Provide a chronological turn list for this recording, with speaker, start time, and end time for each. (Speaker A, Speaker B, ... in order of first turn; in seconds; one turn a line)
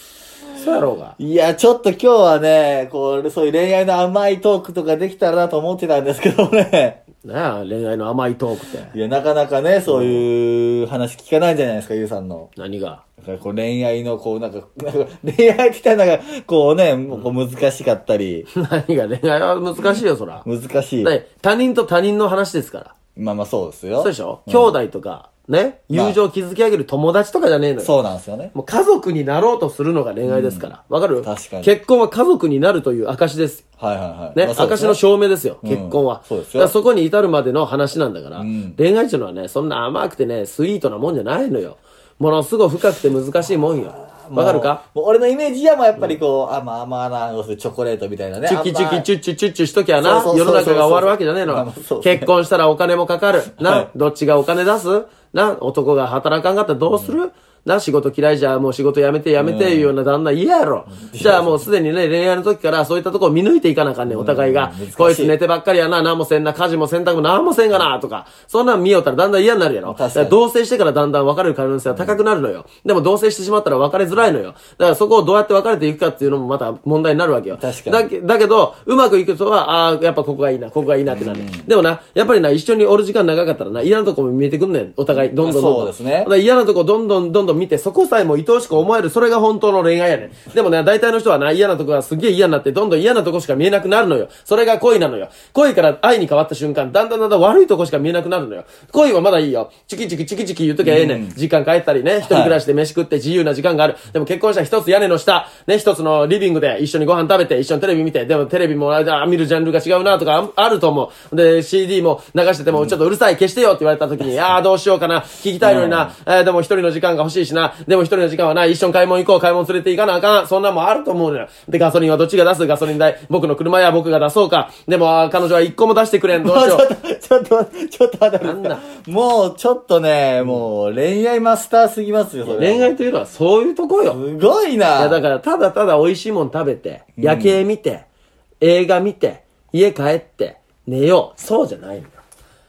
Speaker A: 0.5-1.1
Speaker B: 1.2-7.0
Speaker A: 7.2-8.9
Speaker B: 8.9-12.5
Speaker A: 9.9-10.2
Speaker A: 12.6-13.0
Speaker B: 13.2-18.5
Speaker A: 18.5-20.4
Speaker B: 20.4-21.1
Speaker A: 21.0-22.9
Speaker B: 23.1-24.7
Speaker A: 24.0-27.9
Speaker B: 25.9-26.2
Speaker B: 27.8-28.5
Speaker A: 28.5-33.6
Speaker B: 30.2-30.7
Speaker B: 31.2-31.7
Speaker B: 33.8-35.0
Speaker A: 34.3-44.8
Speaker B: 35.6-36.7
Speaker B: 38.4-38.8
Speaker B: 43.8-49.1
Speaker A: 48.4-126.8
Speaker B: 50.0-52.3
Speaker B: 53.6-53.9
Speaker B: 59.4-59.9
Speaker B: 60.9-61.6
Speaker B: 64.1-65.3
Speaker B: 69.8-70.4
Speaker B: 71.9-72.2
Speaker B: 77.5-78.1
Speaker B: 81.1-81.7
Speaker B: 85.1-86.3
Speaker B: 100.8-101.4
Speaker B: 102.2-102.6
Speaker B: 115.6-116.1
Speaker B: 126.4-132.9
Speaker A: 128.4-128.8
Speaker A: 132.4-134.2
Speaker B: 134.1-135.2
Speaker A: 135.0-138.1
Speaker B: 137.2-137.6
Speaker A: 138.6-142.2